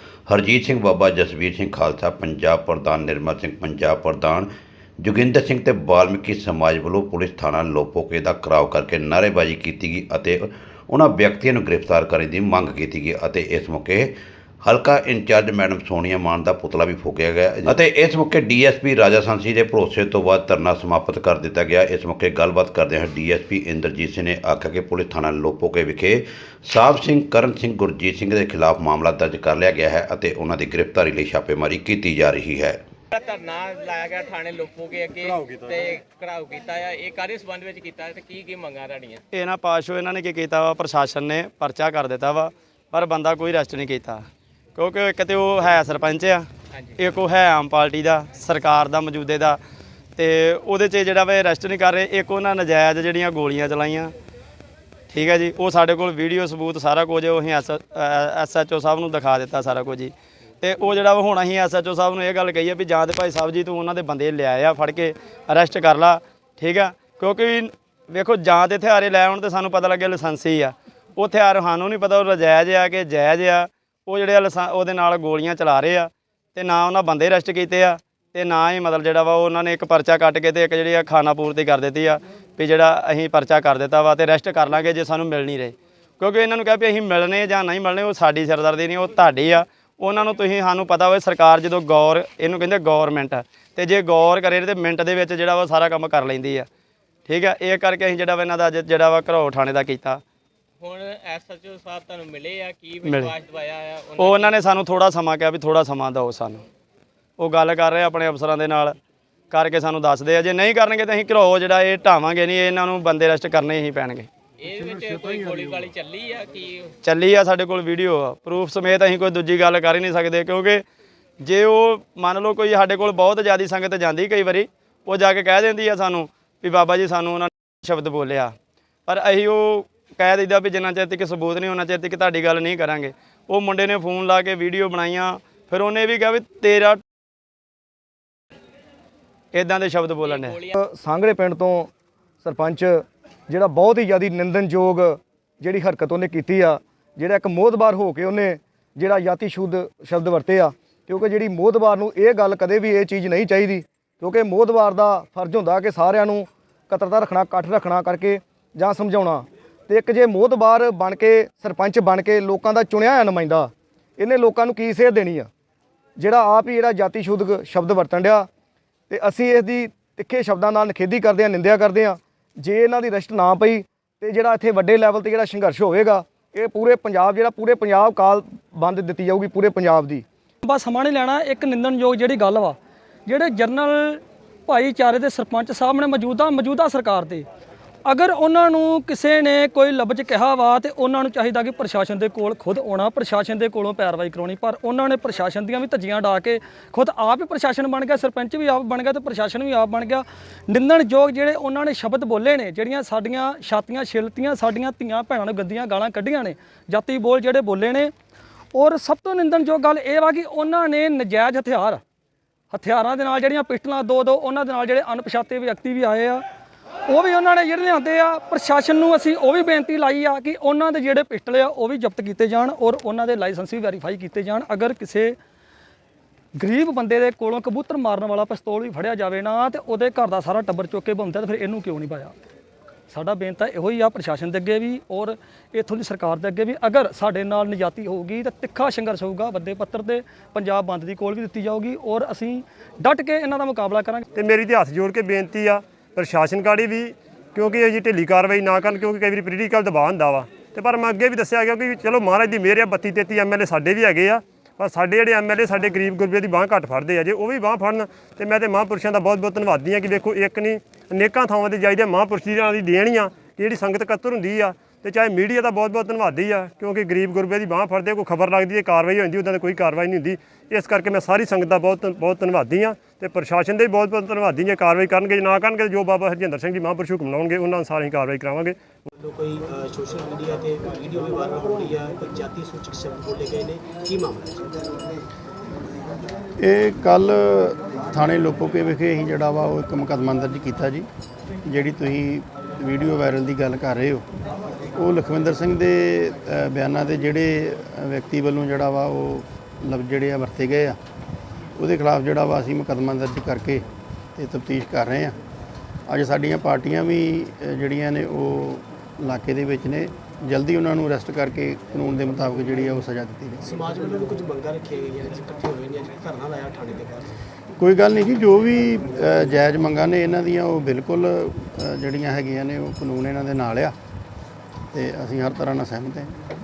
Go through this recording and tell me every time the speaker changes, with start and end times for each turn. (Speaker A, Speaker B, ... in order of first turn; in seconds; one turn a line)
Speaker A: 0.3-4.5
Speaker A: 5.0-32.8
Speaker B: 33.1-39.2
Speaker C: 39.3-49.6
Speaker C: 50.2-54.1
Speaker C: 55.1-96.7
Speaker C: 97.3-100.2
Speaker B: 100.8-104.5
Speaker C: 103.0-103.3
Speaker C: 104.2-106.6
Speaker C: 107.4-109.0
Speaker C: 109.5-114.3
Speaker B: 114.6-116.9
Speaker C: 117.0-120.8
Speaker C: 121.4-128.5
Speaker C: 129.1-137.0
Speaker C: 139.5-140.6
Speaker B: 140.2-140.7
Speaker D: 140.7-141.9
Speaker D: 142.4-165.5
Speaker D: 166.2-168.5
Speaker D: 169.1-180.2
Speaker E: 180.6-187.4
Speaker E: 188.1-208.1
Speaker E: 208.7-212.0
Speaker E: 212.7-216.4
Speaker E: 217.1-225.3
Speaker E: 226.6-232.3
Speaker E: 233.1-244.2
Speaker F: 244.3-278.8
Speaker G: 279.2-284.9
Speaker H: 286.6-291.1
Speaker H: 291.7-294.2
Speaker H: 295.0-301.0
Speaker H: 301.8-303.8
Speaker H: 304.3-305.3
Speaker H: 306.1-313.7
Speaker G: 313.6-317.3
Speaker H: 317.8-323.9
Speaker H: 324.9-326.3